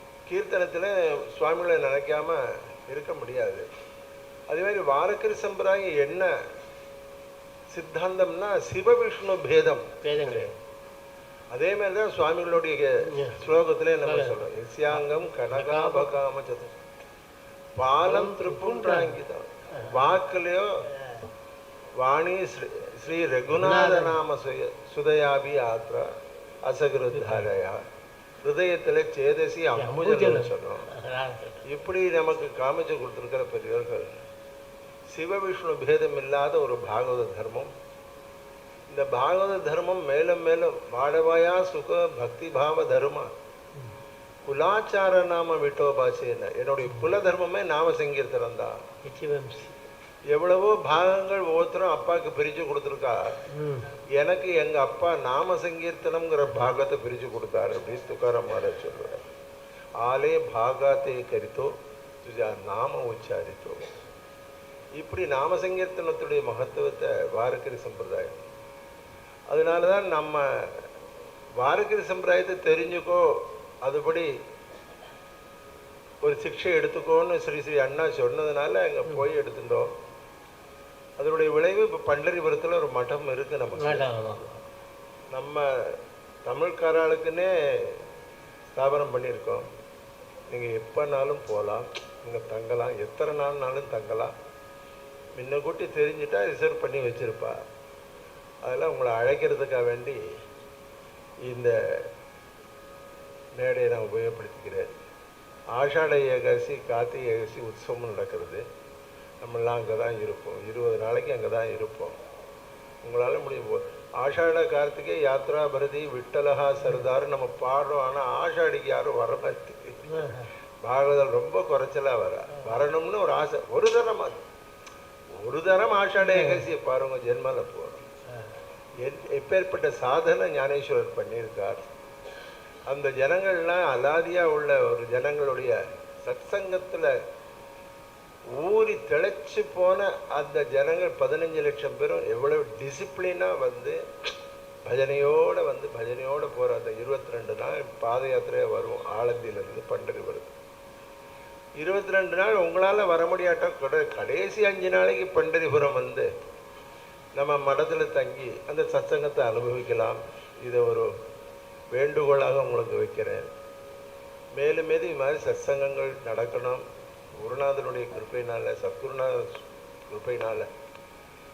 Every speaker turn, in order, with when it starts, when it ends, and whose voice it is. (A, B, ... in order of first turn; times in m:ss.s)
0:00.3-0:03.6 A
0:04.5-0:06.3 A
0:07.7-0:10.5 A
0:10.0-0:10.5 B
0:11.5-0:16.7 A
0:13.1-0:13.4 B
0:14.0-0:14.4 B
0:14.9-0:16.1 B
0:17.8-0:20.7 A
0:18.0-0:19.2 B
0:19.7-0:20.0 B
0:20.9-0:21.2 B
0:22.0-0:26.1 A
0:23.6-0:24.2 B
0:26.6-0:27.8 A
0:27.1-0:27.5 B
0:28.4-0:30.9 A
0:29.7-0:31.6 B
0:31.7-0:34.2 A
0:35.1-0:37.7 A
0:38.9-0:43.3 A
0:44.4-0:48.8 A
0:46.8-0:47.1 B
0:49.0-0:49.7 B
0:50.3-0:53.3 A
0:53.5-0:53.9 B
0:54.2-0:59.3 A
1:00.0-1:01.7 A
1:02.2-1:03.9 A
1:05.0-1:08.4 A
1:09.5-1:10.9 A
1:11.6-1:14.3 A
1:16.2-1:19.9 A
1:21.2-1:24.1 A
1:23.8-1:24.6 B
1:25.3-1:25.6 A
1:26.4-1:28.0 A
1:28.7-1:29.6 A
1:30.5-1:34.3 A
1:35.4-1:37.6 A
1:38.6-1:40.2 A
1:41.5-1:42.0 A
1:43.6-1:44.9 A
1:45.7-1:48.6 A
1:49.4-1:52.2 A
1:53.0-2:00.3 A
2:00.1-2:00.5 B
2:00.8-2:04.4 A
2:05.4-2:08.0 A
2:06.2-2:06.6 B
2:09.0-2:11.8 A
2:12.9-2:17.1 A
2:18.6-2:24.0 A
2:24.8-2:30.5 A
2:31.8-2:36.3 A
2:37.4-2:41.1 A
2:42.0-2:43.5 A
2:44.6-2:46.8 A
2:47.4-2:50.7 A